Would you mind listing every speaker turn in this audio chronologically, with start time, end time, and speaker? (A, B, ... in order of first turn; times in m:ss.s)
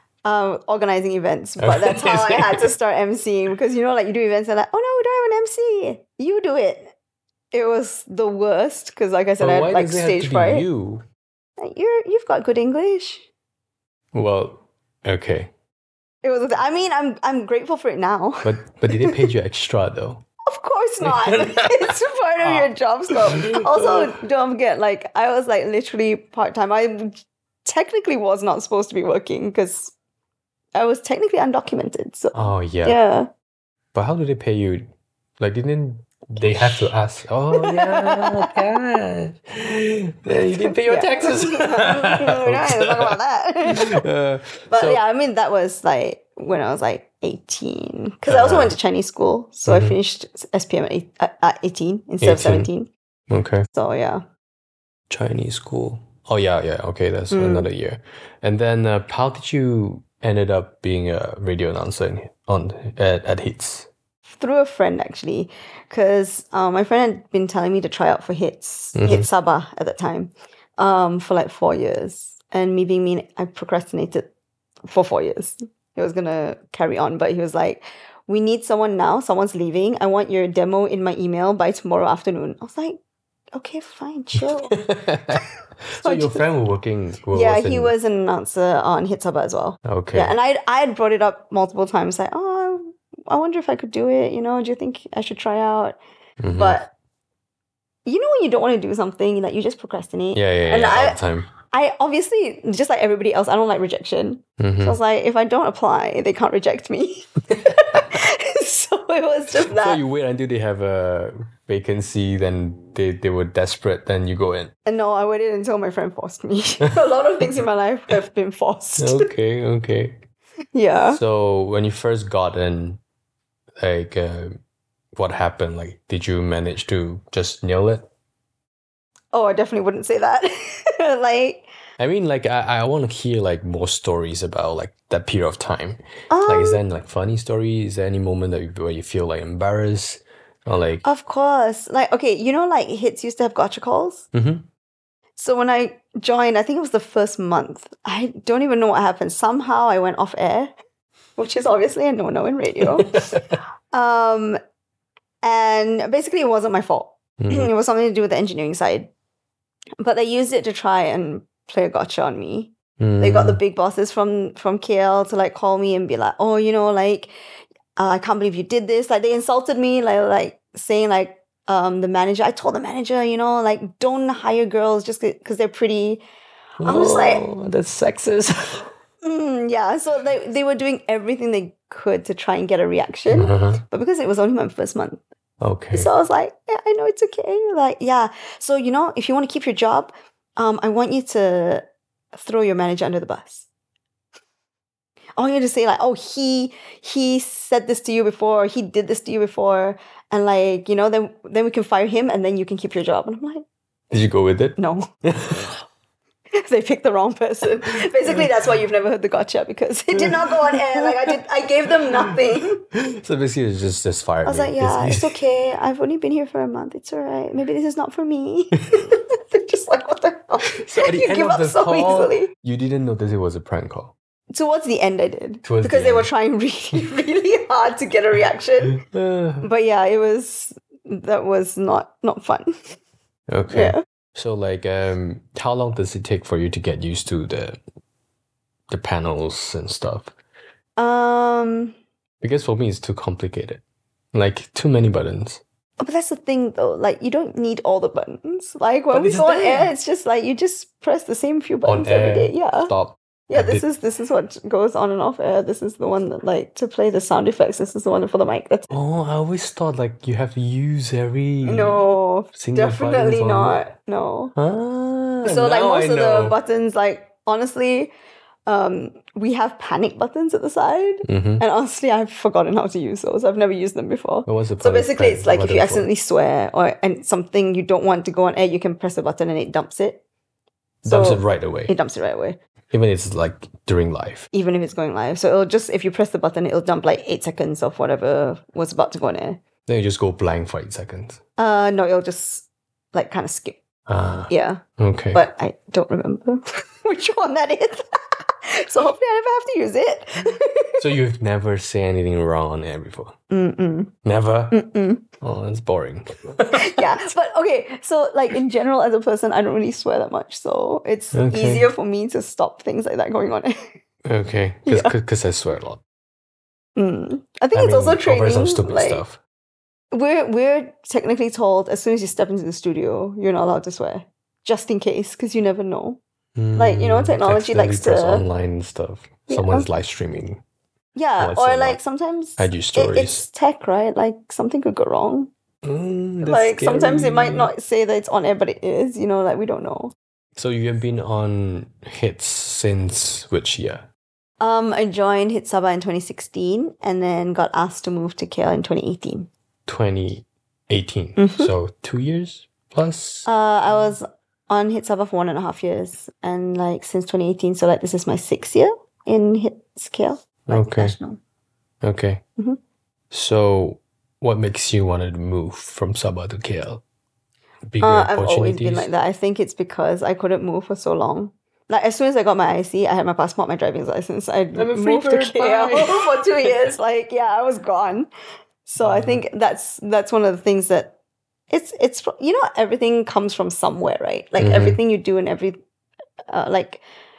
0:00.2-0:06.9 A
0:01.6-0:02.7 B
0:07.5-0:10.6 A
0:09.4-0:11.0 B
0:11.6-0:13.2 A
0:14.1-0:15.5 B
0:16.2-0:18.5 A
0:18.4-0:20.2 B
0:20.4-0:29.9 A
0:21.0-0:24.1 B
0:30.7-0:33.3 A
0:32.3-0:33.0 B
0:33.9-0:45.0 B
0:36.5-0:36.9 A
0:37.5-0:38.6 A
0:40.4-0:44.0 A
0:44.7-0:52.9 A
0:48.3-0:48.7 B
0:49.6-0:50.0 B
0:52.2-0:52.7 B
0:53.3-0:53.7 B
0:53.7-0:54.2 A
0:55.1-1:03.9 B
0:57.3-0:57.7 A
1:04.3-1:14.3 A
1:08.9-1:09.3 B
1:14.9-1:23.0 A
1:23.5-1:24.8 A
1:24.4-1:27.9 B
1:26.0-1:26.4 A
1:27.3-1:36.0 A
1:29.8-1:30.3 B
1:36.4-1:36.8 B
1:36.6-1:36.9 A
1:38.0-1:50.0 A
1:40.3-1:41.5 B
1:44.6-1:45.0 B
1:49.6-1:54.7 B
1:54.8-1:59.3 A
1:59.0-2:00.2 B
2:00.7-2:01.2 A
2:01.1-2:03.0 B
2:03.8-2:04.6 B
2:05.1-2:08.0 B
2:09.3-2:11.7 A
2:12.0-2:21.0 B
2:16.3-2:16.8 A
2:21.0-2:24.2 A
2:24.3-2:24.6 B
2:25.4-2:30.7 A
2:31.4-2:33.3 A
2:32.8-2:33.4 B
2:33.9-2:34.6 A
2:35.4-2:39.1 A
2:37.4-2:37.7 B
2:40.0-2:47.3 A
2:43.0-2:43.6 B
2:48.0-2:56.2 A
2:56.8-2:58.9 B
2:56.8-2:57.4 A
2:59.2-3:05.2 A
3:03.3-3:03.8 B
3:05.6-3:06.1 B
3:05.9-3:13.7 A
3:15.4-3:23.6 A
3:24.1-3:25.7 B
3:24.8-3:25.1 A
3:26.6-3:32.8 A
3:28.2-3:28.5 B
3:30.2-3:31.3 B
3:32.9-3:35.4 B
3:34.4-3:42.5 A
3:40.7-3:44.1 B
3:44.5-3:49.0 A
3:45.6-3:46.3 B
3:48.9-3:49.6 B
3:49.6-3:52.9 A
3:53.5-3:57.8 B
3:53.7-3:54.0 A
3:58.9-4:00.3 B
4:01.0-4:01.9 A
4:02.4-4:03.8 B
4:04.3-4:05.6 B
4:06.0-4:12.9 A
4:09.1-4:09.9 B
4:11.8-4:13.8 B
4:13.5-4:18.9 A
4:18.9-4:22.0 B
4:21.6-4:24.5 A
4:22.5-4:23.8 B
4:24.6-4:26.6 B
4:25.4-4:28.1 A
4:28.6-4:40.2 A
4:31.2-4:31.6 B
4:34.5-4:36.1 B
4:41.0-4:41.9 B
4:41.0-4:42.6 A
4:42.9-4:44.5 B
4:44.5-4:49.6 A
4:49.8-4:51.4 B
4:51.6-4:53.8 A
4:54.1-4:55.4 B
4:54.5-4:58.0 A
4:58.6-5:01.0 A
5:01.0-5:03.3 B
5:03.5-5:04.1 A
5:04.2-5:04.8 B
5:04.7-5:05.2 A
5:05.4-5:07.0 B
5:06.7-5:13.9 A
5:11.3-5:11.9 B
5:14.2-5:16.0 B
5:14.9-5:15.1 A
5:17.0-5:19.2 A
5:17.7-5:19.4 B
5:20.1-5:26.2 A
5:26.6-5:30.6 B
5:26.8-5:28.4 A
5:29.5-5:29.9 A
5:31.1-5:35.5 A
5:31.4-5:32.0 B
5:32.6-5:33.4 B
5:35.8-5:37.7 B
5:36.4-5:40.1 A
5:40.6-5:44.0 B
5:44.6-5:49.5 A
5:49.9-5:53.5 B
5:51.4-5:51.7 A
5:53.4-6:01.4 A
6:00.7-6:01.2 B
6:02.0-6:02.4 B
6:03.3-6:07.0 B
6:07.9-6:09.1 B
6:08.0-6:18.3 A
6:14.7-6:16.9 B
6:18.8-6:21.1 A
6:19.0-6:19.4 B
6:21.7-6:25.8 A
6:24.6-6:25.0 B
6:26.5-6:27.0 A